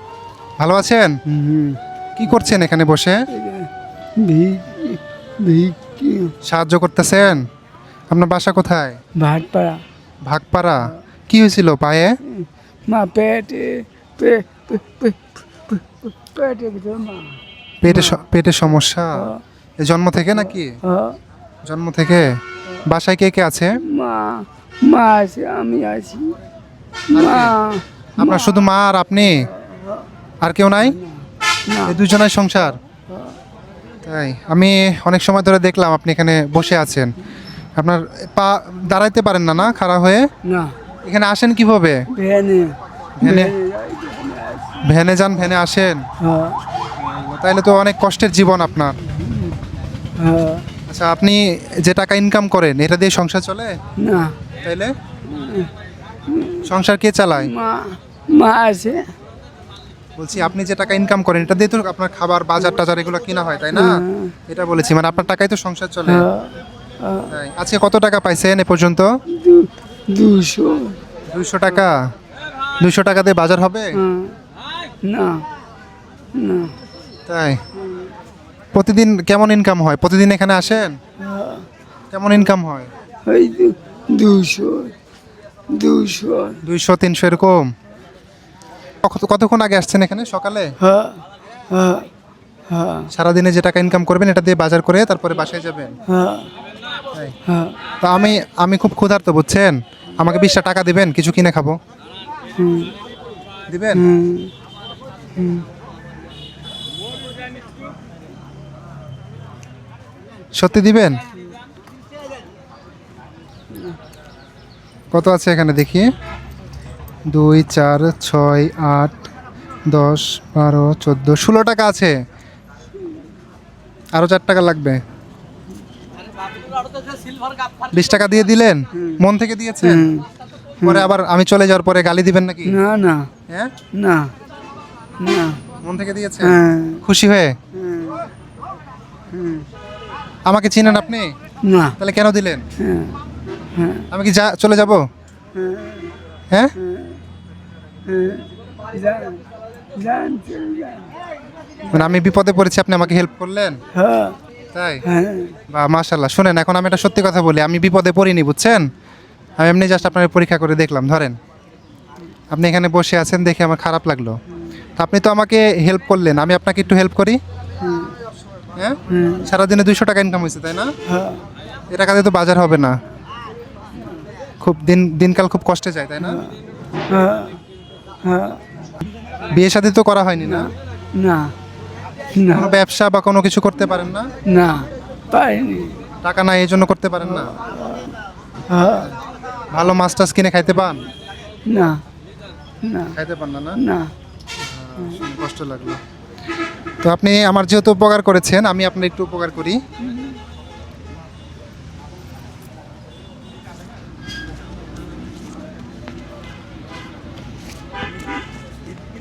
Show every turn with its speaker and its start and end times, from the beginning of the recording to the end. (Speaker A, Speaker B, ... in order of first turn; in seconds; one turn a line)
Speaker A: 0.6-1.1
Speaker B: 1.3-1.8
Speaker A: 2.2-3.1
Speaker B: 3.3-6.3
Speaker A: 6.4-7.4
Speaker A: 8.1-9.0
Speaker B: 9.2-9.8
Speaker A: 10.2-12.2
Speaker B: 12.3-18.2
Speaker A: 17.8-20.8
Speaker B: 19.1-19.4
Speaker B: 20.4-21.2
Speaker A: 21.6-23.8
Speaker B: 23.9-26.4
Speaker A: 27.1-27.5
Speaker B: 27.1-28.5
Speaker A: 28.2-29.4
Speaker B: 29.3-30.0
Speaker A: 30.4-31.0
Speaker B: 30.9-31.9
Speaker A: 31.9-32.8
Speaker A: 34.0-37.1
Speaker A: 37.8-40.2
Speaker B: 40.5-40.7
Speaker A: 41.0-42.0
Speaker B: 42.1-44.8
Speaker A: 43.2-43.5
Speaker A: 44.8-46.0
Speaker B: 46.2-46.6
Speaker A: 47.0-49.0
Speaker B: 49.2-49.5
Speaker B: 50.2-50.6
Speaker A: 50.9-53.7
Speaker B: 54.0-54.3
Speaker A: 54.6-54.9
Speaker B: 55.3-55.7
Speaker B: 56.3-56.7
Speaker A: 56.6-57.5
Speaker B: 57.4-59.0
Speaker A: 60.2-63.9
Speaker B: 63.7-64.3
Speaker A: 64.5-66.2
Speaker B: 66.1-67.3
Speaker A: 67.3-69.1
Speaker B: 69.4-71.0
Speaker A: 71.3-71.9
Speaker A: 72.8-73.9
Speaker B: 74.0-74.3
Speaker B: 75.0-75.4
Speaker B: 76.3-76.7
Speaker A: 77.3-77.6
Speaker A: 78.7-81.0
Speaker B: 81.2-81.6
Speaker A: 82.1-82.9
Speaker B: 83.3-84.9
Speaker B: 85.7-86.6
Speaker A: 86.6-87.6
Speaker A: 89.0-90.7
Speaker B: 90.8-91.2
Speaker B: 91.7-92.1
Speaker B: 92.7-93.1
Speaker A: 93.1-96.0
Speaker B: 96.1-96.5
Speaker B: 97.5-97.7
Speaker A: 98.0-101.8
Speaker B: 102.6-102.9
Speaker A: 103.7-104.0
Speaker B: 103.9-104.5
Speaker B: 105.4-105.6
Speaker A: 110.5-111.2
Speaker A: 115.1-116.1
Speaker A: 117.3-119.3
Speaker A: 119.9-122.1
Speaker A: 124.1-125.0
Speaker A: 127.9-130.1
Speaker B: 129.8-130.2
Speaker B: 130.8-131.1
Speaker A: 130.8-132.8
Speaker B: 132.7-133.3
Speaker B: 133.9-134.3
Speaker B: 135.2-135.6
Speaker A: 135.8-137.5
Speaker B: 136.4-137.0
Speaker B: 137.8-138.2
Speaker B: 139.3-139.7
Speaker A: 140.4-141.3
Speaker B: 141.6-141.9
Speaker A: 142.0-142.6
Speaker B: 142.8-143.1
Speaker B: 143.8-144.0
Speaker A: 144.1-145.0
Speaker B: 145.6-146.1
Speaker B: 146.8-147.2
Speaker B: 148.1-149.4
Speaker B: 150.0-151.1
Speaker A: 151.9-153.8
Speaker B: 153.9-154.4
Speaker A: 154.7-155.0
Speaker B: 155.1-155.6
Speaker A: 155.7-158.9
Speaker A: 159.6-161.3
Speaker A: 162.5-164.4
Speaker A: 165.0-167.4
Speaker B: 167.8-168.1
Speaker A: 168.8-170.9
Speaker B: 169.1-169.5
Speaker B: 171.1-171.4
Speaker A: 171.9-172.9
Speaker A: 174.6-176.4
Speaker B: 176.2-176.5
Speaker B: 177.1-177.6
Speaker B: 178.2-178.6
Speaker A: 179.5-180.7
Speaker B: 180.4-181.5
Speaker B: 182.3-182.7
Speaker A: 182.5-184.3
Speaker B: 184.5-186.0
Speaker A: 186.2-187.5
Speaker B: 187.7-188.1
Speaker B: 188.7-189.1
Speaker A: 189.7-191.0
Speaker B: 191.7-192.0
Speaker B: 192.8-193.2
Speaker A: 193.1-193.8
Speaker B: 193.8-194.1
Speaker A: 194.6-196.0
Speaker A: 197.0-199.8